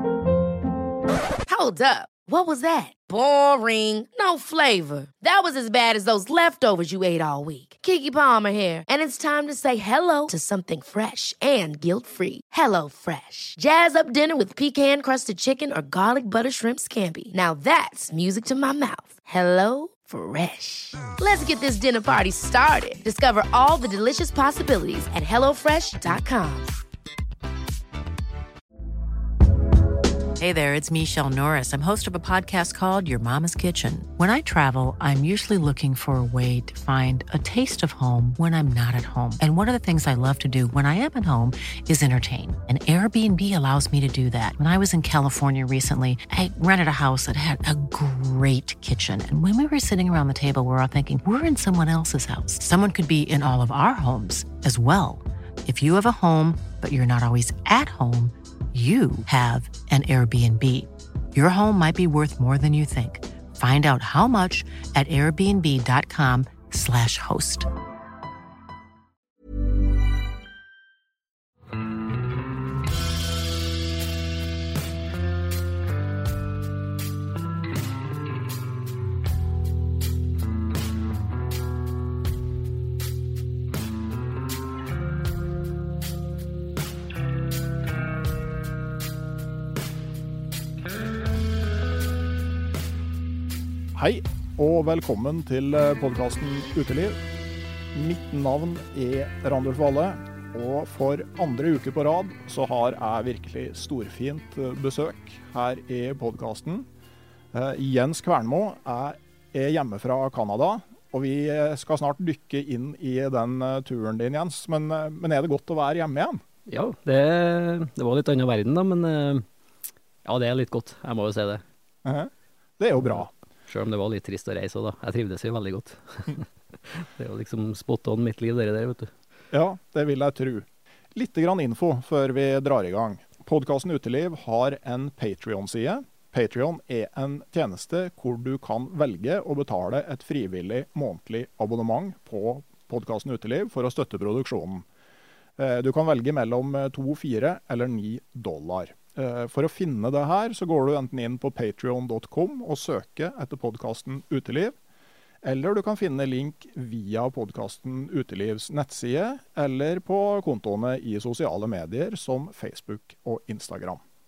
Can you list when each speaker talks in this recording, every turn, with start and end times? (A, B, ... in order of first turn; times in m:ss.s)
0:01.5-0:26.7 A
0:30.4-1:07.7 B
1:33.9-1:37.2 C
1:37.9-1:46.9 C
1:47.5-1:56.4 C
1:56.7-1:59.5 D
2:00.2-2:01.6 D
2:02.0-2:03.3 C
2:03.0-2:09.1 D
2:09.5-2:24.8 C
2:25.6-2:34.7 C
2:35.4-2:44.0 C